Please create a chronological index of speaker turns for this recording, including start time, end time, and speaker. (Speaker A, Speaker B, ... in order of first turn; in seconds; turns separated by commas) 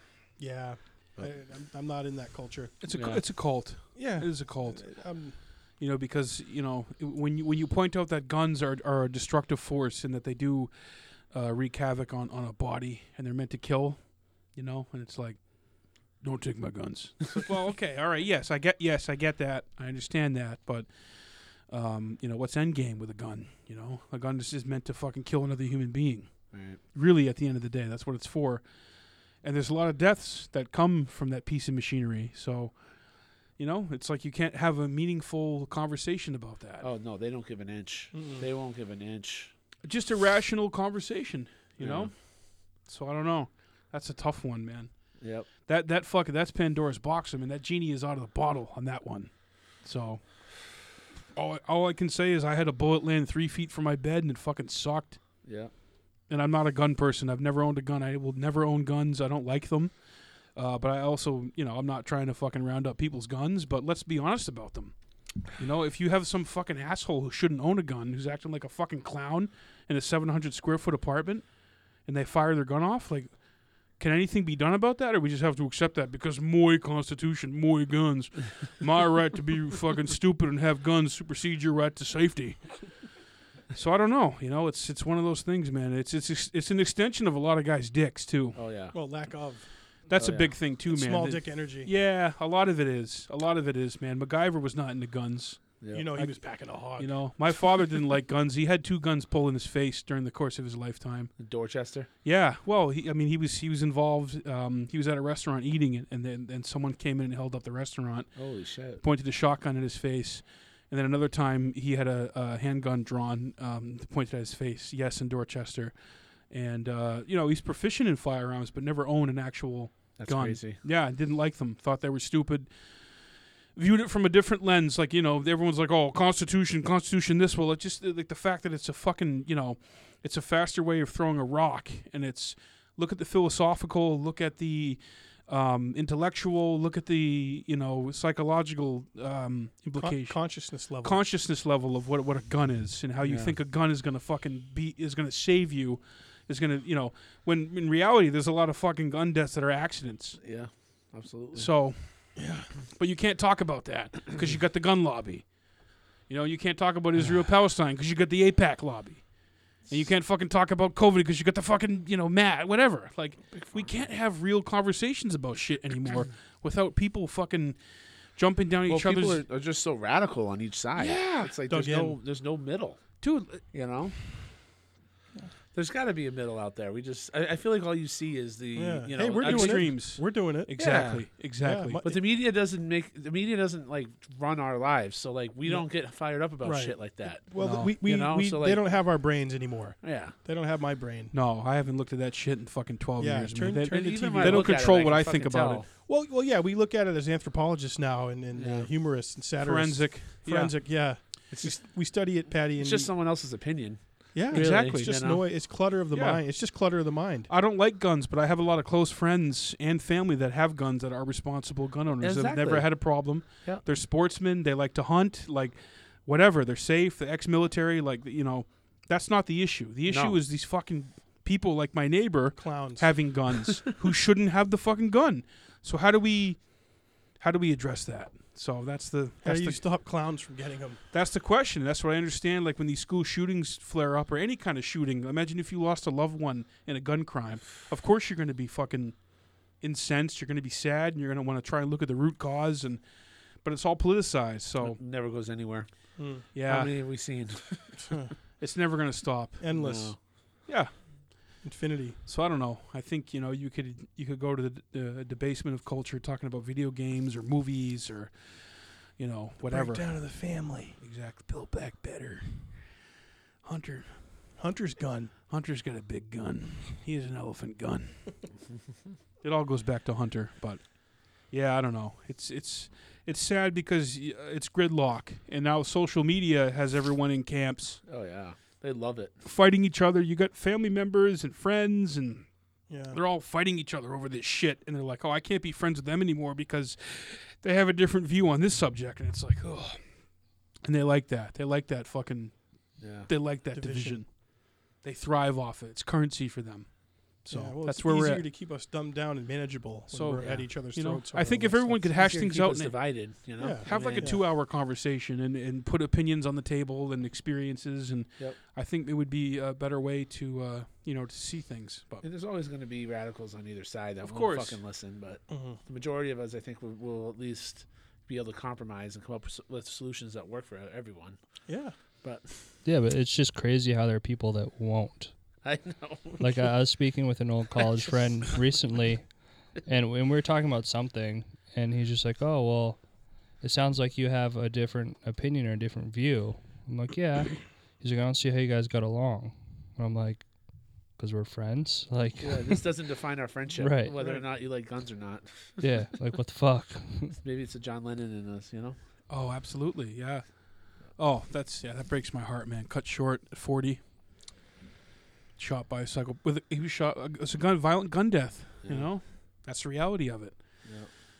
Speaker A: 0.4-2.7, Speaker B: 2.8-36.9, Speaker C: 2.9-3.2, Speaker A: 3.9-5.3, Speaker C: 26.5-26.8, Speaker C: 36.8-39.5, Speaker A: 38.1-38.5, Speaker B: 39.8-55.4, Speaker C: 41.8-42.1, Speaker C: 45.2-45.5, Speaker C: 55.4-55.7, Speaker B: 56.3-60.0, Speaker B: 60.5-83.1, Speaker B: 83.7-88.6, Speaker C: 88.5-89.0, Speaker A: 88.9-89.7, Speaker B: 90.1-101.3, Speaker C: 90.2-90.5, Speaker A: 90.9-91.9, Speaker C: 95.8-96.1, Speaker A: 95.9-97.4, Speaker C: 101.4-102.1, Speaker B: 102.2-115.9, Speaker C: 108.3-109.0, Speaker B: 116.5-150.4, Speaker C: 120.2-120.8, Speaker A: 140.0-141.2, Speaker C: 143.2-143.5, Speaker C: 150.4-151.7, Speaker B: 151.5-167.8, Speaker A: 152.3-152.7, Speaker C: 163.5-164.1, Speaker B: 168.3-169.4, Speaker C: 168.9-173.2, Speaker B: 170.9-171.5, Speaker A: 171.7-172.2, Speaker B: 173.2-173.6, Speaker C: 173.7-174.2, Speaker C: 175.7-179.9, Speaker A: 178.7-180.9, Speaker B: 179.4-182.0, Speaker C: 180.8-181.3, Speaker A: 181.6-182.2, Speaker C: 182.0-188.8, Speaker A: 186.6-191.3, Speaker B: 187.6-187.9, Speaker C: 190.0-190.3, Speaker B: 191.3-195.8, Speaker A: 193.2-195.2, Speaker C: 193.9-195.9, Speaker A: 196.1-203.1, Speaker C: 198.6-198.9, Speaker B: 199.6-200.8, Speaker C: 201.5-201.8, Speaker C: 202.8-205.4, Speaker A: 204.3-207.5, Speaker B: 204.5-205.2, Speaker B: 206.1-206.4, Speaker B: 207.5-229.9, Speaker C: 212.2-213.8, Speaker C: 220.1-220.4, Speaker A: 222.5-223.2, Speaker A: 229.4-231.0, Speaker B: 231.1-245.0, Speaker C: 244.8-248.2, Speaker A: 246.2-246.4, Speaker B: 246.5-247.5, Speaker A: 248.0-248.3, Speaker B: 248.6-249.7, Speaker A: 249.6-250.2, Speaker C: 249.7-250.2, Speaker B: 250.7-251.1, Speaker A: 251.6-252.2, Speaker B: 252.3-263.0, Speaker A: 259.6-261.0, Speaker B: 263.6-264.5, Speaker A: 264.6-265.3, Speaker B: 265.5-268.5, Speaker B: 269.4-278.0, Speaker C: 278.1-279.3, Speaker B: 279.4-282.5, Speaker A: 282.9-283.2, Speaker B: 283.1-298.4, Speaker C: 293.0-293.3, Speaker A: 293.7-294.2, Speaker A: 297.5-302.3, Speaker B: 300.1-312.2, Speaker C: 300.4-300.7, Speaker C: 302.1-304.3, Speaker A: 303.6-304.4, Speaker C: 312.2-321.4, Speaker B: 314.2-314.8, Speaker A: 315.5-315.8, Speaker A: 321.7-321.9, Speaker C: 322.2-322.7, Speaker D: 322.8-325.3, Speaker C: 325.6-326.7, Speaker D: 326.4-333.0, Speaker D: 333.6-340.5, Speaker D: 341.1-342.8, Speaker C: 342.4-345.8, Speaker D: 343.8-344.2, Speaker A: 344.1-344.4, Speaker D: 345.8-347.4, Speaker C: 347.4-349.0, Speaker B: 349.3-354.1, Speaker B: 355.6-361.1, Speaker C: 358.8-359.1, Speaker C: 360.8-361.1